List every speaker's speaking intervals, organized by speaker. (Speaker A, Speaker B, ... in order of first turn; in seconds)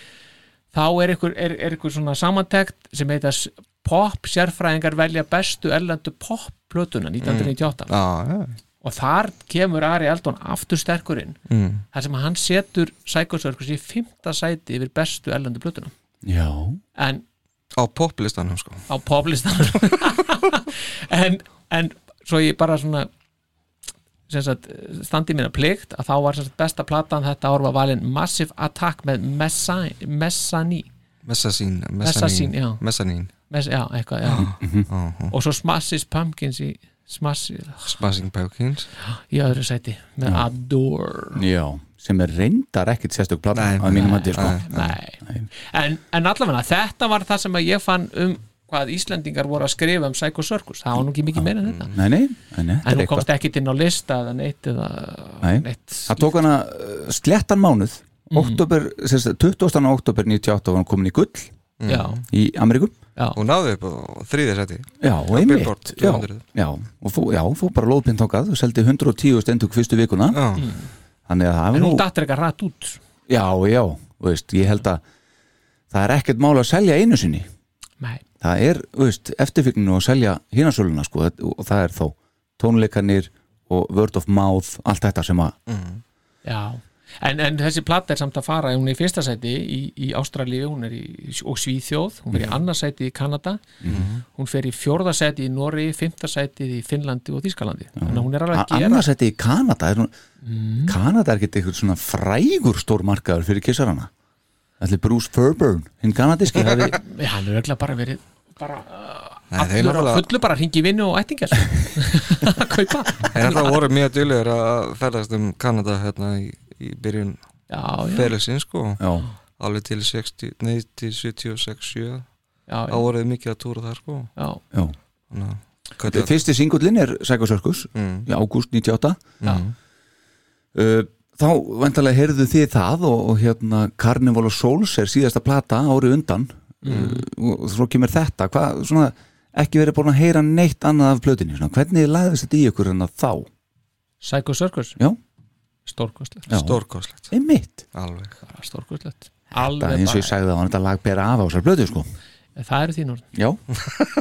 Speaker A: 0.7-7.9, 8.8-11.4, 11.9-15.9, 17.0-17.2, 18.9-23.1, 24.3-30.9, 32.0-32.8, 33.5-34.5, 35.3-38.0, 39.0-41.4, 43.9-51.9, 52.8-56.3, 58.3-58.6, 61.9-62.2, 70.6-70.9, 71.7-73.0, 86.5-93.6, 94.3-99.1, 100.4-101.0, 107.0-113.8, 117.7-118.3, 122.7-123.1, 136.8-137.2, 144.2-145.0, 145.9-146.5, 148.4-150.3, 152.6-153.2
Speaker B: 7.2-8.6, 11.5-11.8, 17.8-18.9, 31.2-33.3, 34.2-35.3, 37.9-38.9, 43.5-44.7, 51.6-51.9, 61.8-62.2, 63.4-66.4, 70.3-70.6, 85.7-86.0, 93.9-94.2, 109.5-110.3, 113.3-117.4, 118.0-119.0, 119.6-122.3, 122.9-124.3, 125.3-126.3, 128.0-128.3, 129.4-129.7, 146.5-147.3, 147.9-148.4
Speaker C: 16.2-16.8, 34.6-34.9, 41.4-45.5, 51.4-53.3, 55.4-61.5, 62.3-63.0, 65.0-70.4, 71.3-72.0, 73.3-75.0, 75.9-77.5, 78.4-85.5, 93.8-94.1, 98.0-100.1, 100.9-104.1, 104.8-107.0, 119.0-119.3, 126.0-129.3, 130.7-143.5, 146.5-147.9, 149.5-152.1, 153.3-153.6